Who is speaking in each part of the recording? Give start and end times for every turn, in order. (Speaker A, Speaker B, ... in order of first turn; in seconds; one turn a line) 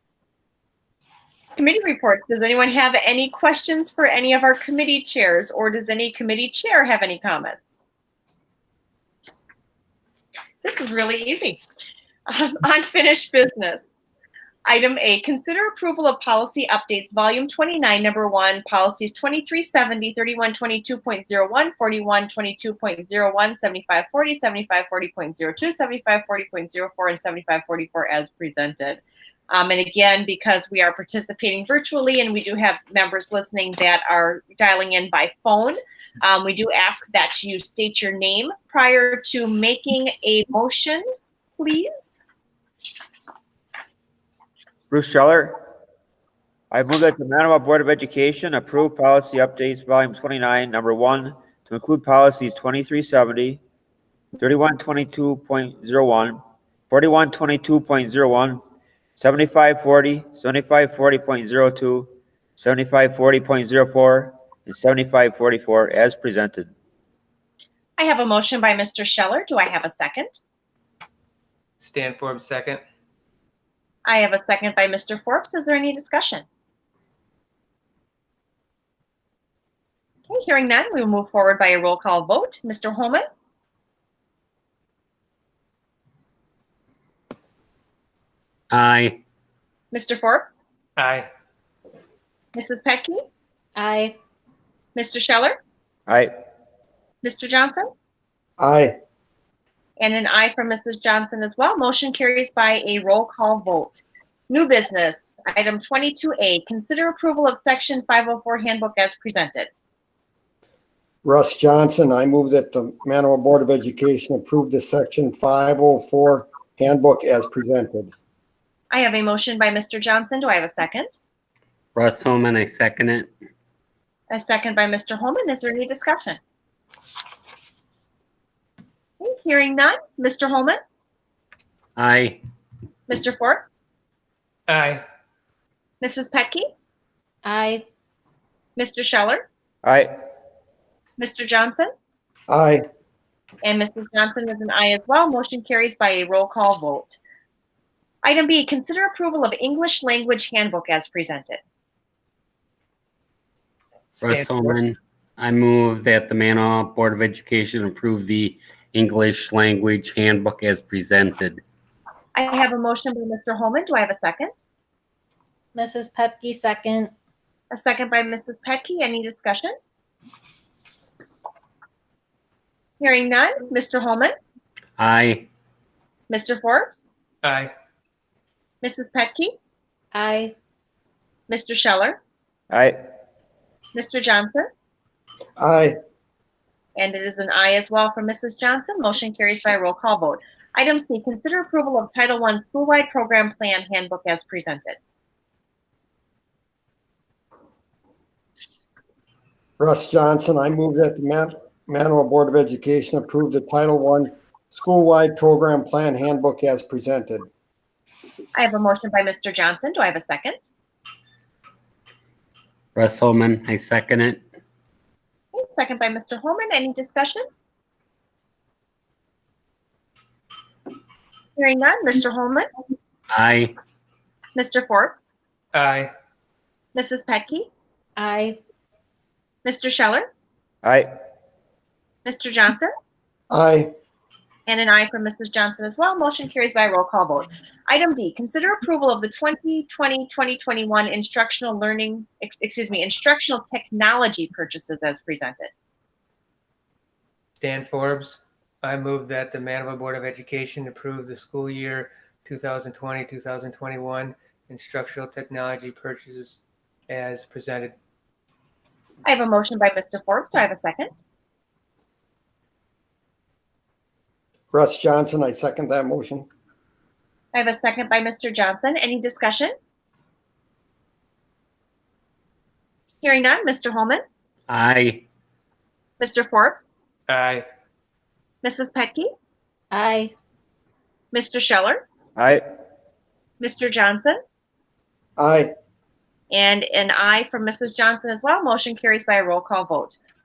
Speaker A: 1.6-7.6
Speaker A: 10.6-11.6
Speaker A: 12.3-13.8
Speaker A: 14.7-41.0
Speaker A: 41.6-41.9
Speaker B: 44.9-45.5
Speaker B: 46.7-53.6
Speaker B: 54.4-56.4
Speaker B: 56.9-58.6
Speaker B: 59.2-66.7
Speaker A: 68.0-70.4
Speaker C: 71.8-72.8
Speaker A: 74.0-76.4
Speaker A: 80.3-83.2
Speaker D: 88.7-89.2
Speaker A: 89.9-90.6
Speaker C: 91.0-91.3
Speaker A: 92.5-93.2
Speaker E: 93.8-94.2
Speaker A: 94.9-95.6
Speaker A: 97.2-97.9
Speaker F: 98.6-98.9
Speaker A: 100.0-109.7
Speaker F: 111.2-118.1
Speaker A: 118.9-121.2
Speaker D: 121.9-123.3
Speaker A: 124.3-126.4
Speaker A: 129.2-130.8
Speaker D: 132.0-132.4
Speaker A: 133.1-133.7
Speaker C: 134.7-135.0
Speaker A: 136.0-136.7
Speaker E: 137.4-137.8
Speaker A: 138.8-139.4
Speaker B: 139.8-140.1
Speaker A: 141.2-141.9
Speaker F: 142.5-142.8
Speaker A: 143.6-147.2
Speaker A: 148.2-151.6
Speaker C: 154.1-154.8
Speaker D: 154.2-161.6
Speaker A: 162.3-164.6
Speaker E: 165.7-167.1
Speaker A: 167.7-169.7
Speaker A: 173.0-174.3
Speaker D: 175.0-175.5
Speaker A: 176.3-177.0
Speaker C: 177.4-177.7
Speaker A: 178.8-179.5
Speaker E: 180.1-180.5
Speaker A: 181.5-182.2
Speaker B: 182.7-182.9
Speaker A: 183.9-184.7
Speaker F: 185.6-185.9
Speaker A: 187.0-195.0
Speaker F: 199.8-207.5
Speaker A: 208.5-210.7
Speaker D: 212.9-214.4
Speaker A: 215.5-217.4
Speaker A: 221.6-222.7
Speaker D: 223.3-223.7
Speaker A: 224.5-225.3
Speaker C: 225.7-226.1
Speaker A: 226.9-227.7
Speaker E: 228.2-228.6
Speaker A: 229.6-230.3
Speaker A: 232.2-232.9
Speaker F: 233.5-233.9
Speaker A: 234.7-245.7
Speaker C: 247.6-257.9
Speaker A: 259.2-261.1
Speaker F: 264.7-266.4
Speaker A: 267.5-269.7
Speaker A: 273.2-274.2
Speaker D: 274.7-275.2
Speaker A: 276.2-276.9
Speaker C: 277.3-277.6
Speaker A: 278.6-279.3
Speaker E: 279.9-280.3
Speaker A: 281.3-282.0
Speaker B: 282.4-282.6
Speaker A: 283.6-284.4
Speaker F: 285.4-285.7
Speaker A: 286.5-290.2